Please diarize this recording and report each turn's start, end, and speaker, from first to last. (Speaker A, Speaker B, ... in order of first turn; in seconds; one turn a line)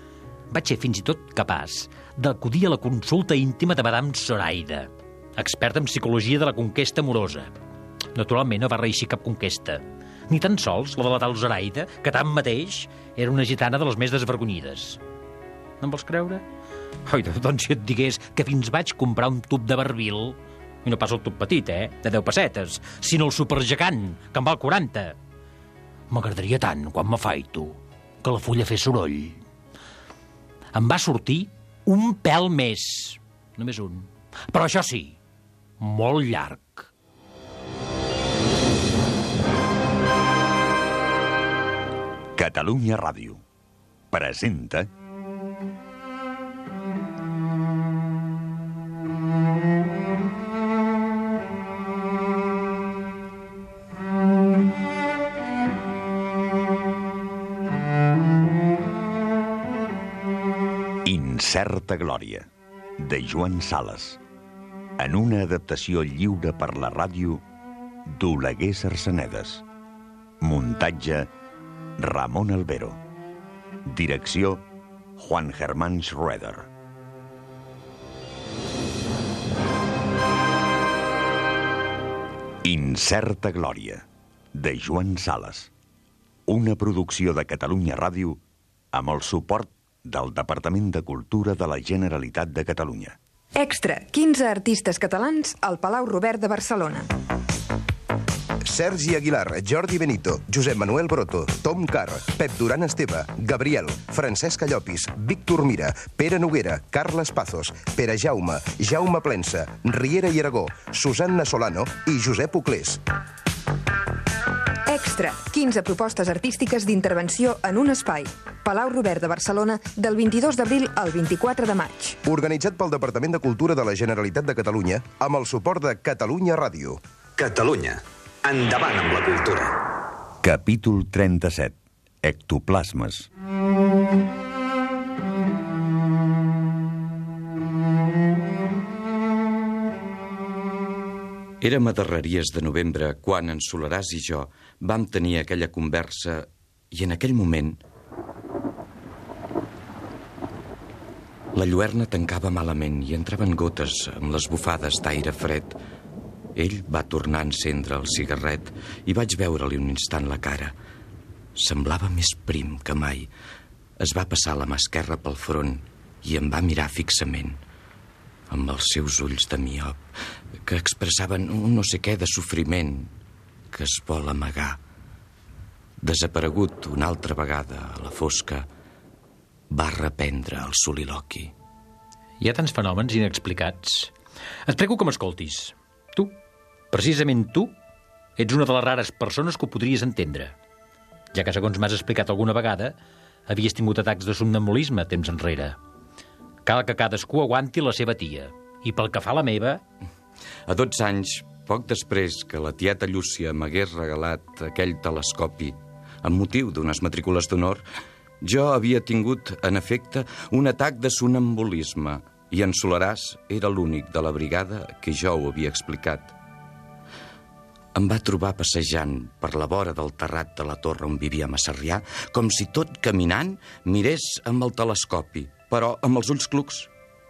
Speaker A: 0.5-7.6
Speaker A: 8.1-15.0
Speaker A: 15.8-16.4
Speaker A: 17.1-25.2
Speaker A: 26.1-29.4
Speaker A: 30.7-35.2
Speaker A: 35.8-36.9
Speaker B: 42.4-43.4
Speaker B: 44.1-44.9
Speaker B: 61.0-64.2
Speaker B: 65.0-67.4
Speaker B: 68.1-69.6
Speaker B: 70.4-71.3
Speaker B: 72.0-73.0
Speaker B: 73.9-74.7
Speaker B: 75.2-76.7
Speaker B: 82.6-85.7
Speaker B: 86.5-88.4
Speaker B: 88.9-93.2
Speaker C: 93.6-97.1
Speaker D: 98.7-113.0
Speaker C: 114.9-122.2
Speaker D: 122.2-127.0
Speaker E: 127.4-129.7
Speaker B: 130.4-133.3
Speaker F: 141.6-147.8
Speaker F: 151.6-155.8
Speaker F: 156.6-160.8
Speaker F: 161.6-163.3
Speaker F: 164.0-167.6
Speaker F: 168.5-170.0
Speaker F: 170.7-173.1
Speaker F: 173.7-174.8
Speaker F: 176.0-178.7
Speaker F: 179.7-181.5
Speaker A: 182.4-184.1
Speaker A: 184.7-186.3
Speaker A: 186.9-187.7
Speaker A: 188.4-190.6
Speaker A: 191.3-193.0
Speaker A: 193.5-195.8
Speaker A: 196.7-199.8
Speaker F: 200.7-207.8
Speaker F: 208.4-216.3
Speaker F: 217.9-226.9